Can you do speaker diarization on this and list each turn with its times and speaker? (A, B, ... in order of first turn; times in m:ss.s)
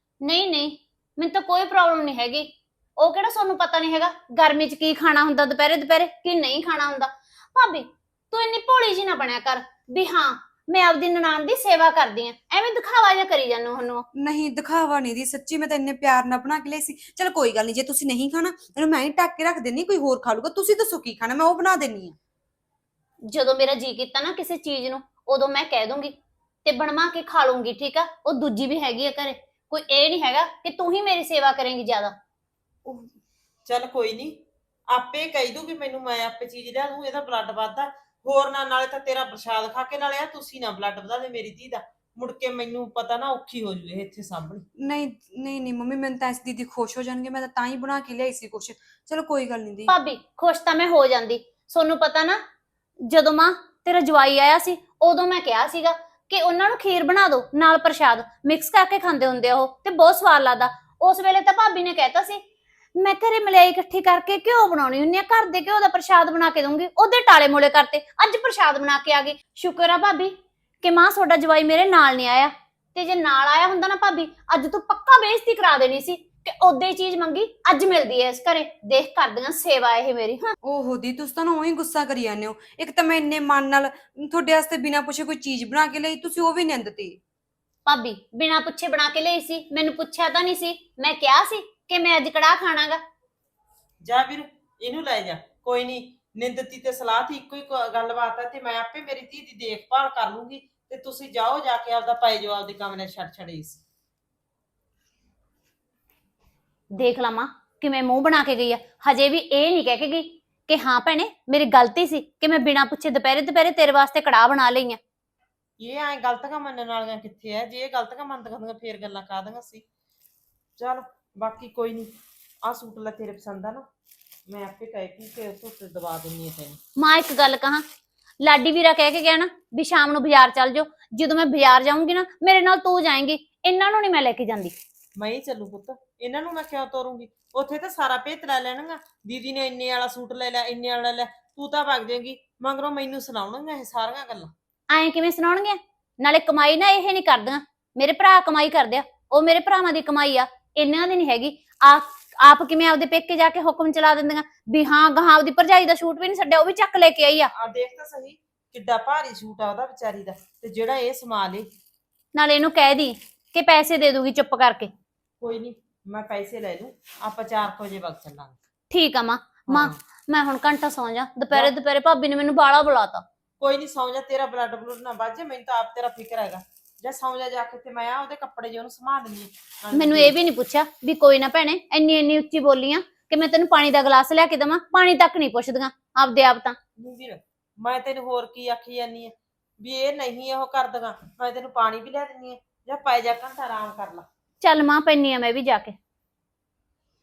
0:00.2-0:14.0 A
0:14.2-0:22.2 B
0:23.3-0:26.1 A
0:26.6-0:32.2 A
0:33.7-0:44.7 C
0:44.8-0:49.9 B
0:49.9-0:52.4 A
0:53.0-1:02.4 A
1:03.0-1:20.5 A
1:20.6-1:27.2 B
1:27.9-1:33.0 A
1:34.0-1:43.8 C
1:47.0-1:55.0 A
1:55.8-1:59.8 C
2:00.8-2:03.9 C
2:04.5-2:06.8 C
2:07.0-2:07.8 A
2:08.4-2:14.7 A
2:15.2-2:24.5 C
2:24.9-2:37.5 A
2:37.6-2:41.7 C
2:42.3-2:44.9 A
2:45.4-2:48.6 C
2:48.9-2:53.2 A
2:49.7-2:50.0 C
2:53.6-3:00.4 C
2:59.9-3:06.8 A
3:07.0-3:14.3 C
3:14.6-3:16.0 A